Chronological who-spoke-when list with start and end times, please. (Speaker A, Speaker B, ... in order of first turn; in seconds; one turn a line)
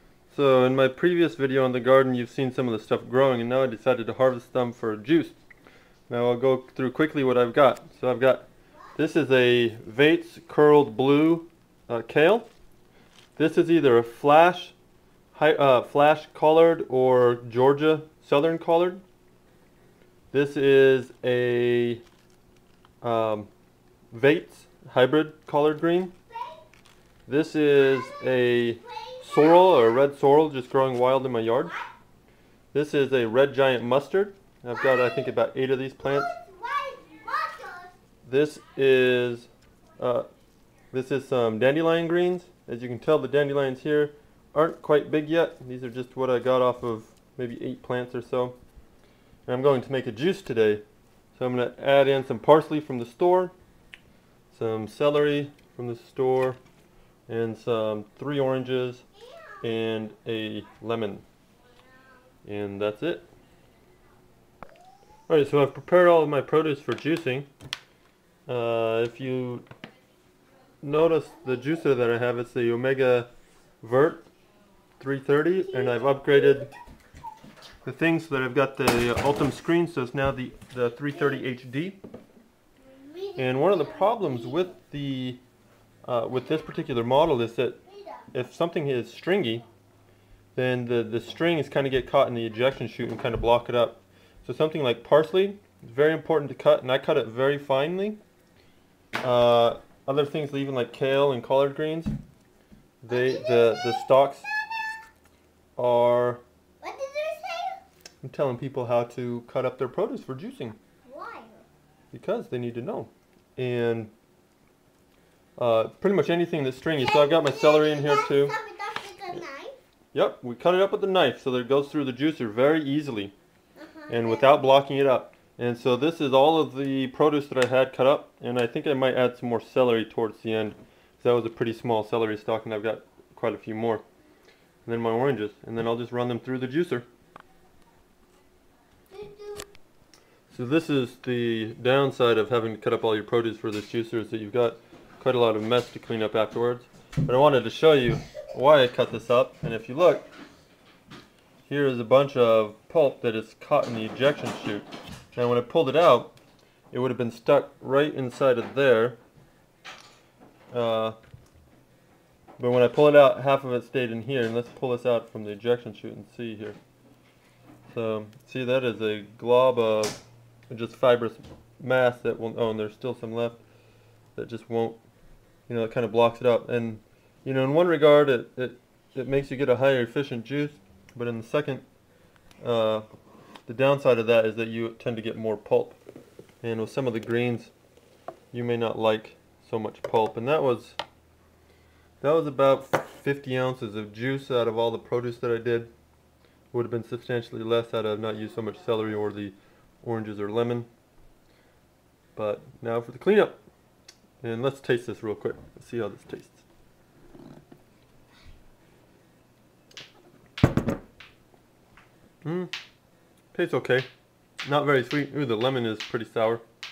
Speaker A: 0.3-5.3
Speaker A: 6.1-8.4
Speaker A: 8.9-12.5
Speaker A: 13.3-14.7
Speaker A: 15.3-19.0
Speaker A: 20.3-22.0
Speaker A: 23.0-23.5
Speaker A: 24.1-26.1
Speaker B: 26.3-26.6
Speaker A: 27.3-31.7
Speaker B: 27.7-30.0
Speaker B: 31.6-31.9
Speaker A: 32.7-36.4
Speaker B: 34.7-35.4
Speaker B: 36.0-37.9
Speaker A: 38.2-40.3
Speaker A: 40.9-48.6
Speaker A: 49.5-50.8
Speaker A: 51.4-53.5
Speaker A: 54.5-56.6
Speaker A: 57.3-59.0
Speaker B: 59.1-59.6
Speaker A: 59.6-61.2
Speaker B: 61.8-62.3
Speaker A: 62.4-63.2
Speaker A: 65.3-67.5
Speaker A: 68.5-69.7
Speaker A: 70.8-73.3
Speaker B: 71.5-71.8
Speaker A: 73.8-74.2
Speaker A: 75.0-76.7
Speaker B: 75.6-76.7
Speaker A: 77.8-82.0
Speaker B: 81.2-81.4
Speaker B: 82.8-84.7
Speaker A: 83.4-85.4
Speaker A: 86.0-87.8
Speaker B: 87.8-88.3
Speaker A: 88.3-89.6
Speaker A: 90.5-98.2
Speaker A: 99.2-102.2
Speaker A: 103.0-104.5
Speaker B: 103.1-104.5
Speaker A: 105.8-106.4
Speaker B: 106.8-107.8
Speaker A: 108.2-110.8
Speaker B: 111.0-111.6
Speaker A: 112.1-114.1
Speaker A: 115.6-118.5
Speaker B: 117.0-119.8
Speaker A: 120.1-123.3
Speaker B: 123.8-124.5
Speaker A: 124.1-134.0
Speaker A: 134.8-137.1
Speaker B: 139.1-139.7
Speaker A: 140.5-150.3
Speaker A: 151.7-156.3
Speaker A: 156.9-159.2
Speaker A: 160.7-161.2
Speaker A: 162.6-166.8
Speaker A: 167.9-170.2
Speaker A: 170.7-173.6
Speaker A: 174.3-175.0
Speaker A: 175.7-181.8
Speaker A: 182.6-183.1
Speaker A: 183.7-186.0
Speaker A: 186.6-187.7
Speaker A: 188.5-191.0
Speaker A: 192.2-195.9
Speaker A: 196.7-200.9
Speaker A: 202.3-203.6
Speaker A: 204.4-206.6
Speaker A: 212.4-212.7
Speaker A: 213.5-214.1
Speaker A: 214.6-216.6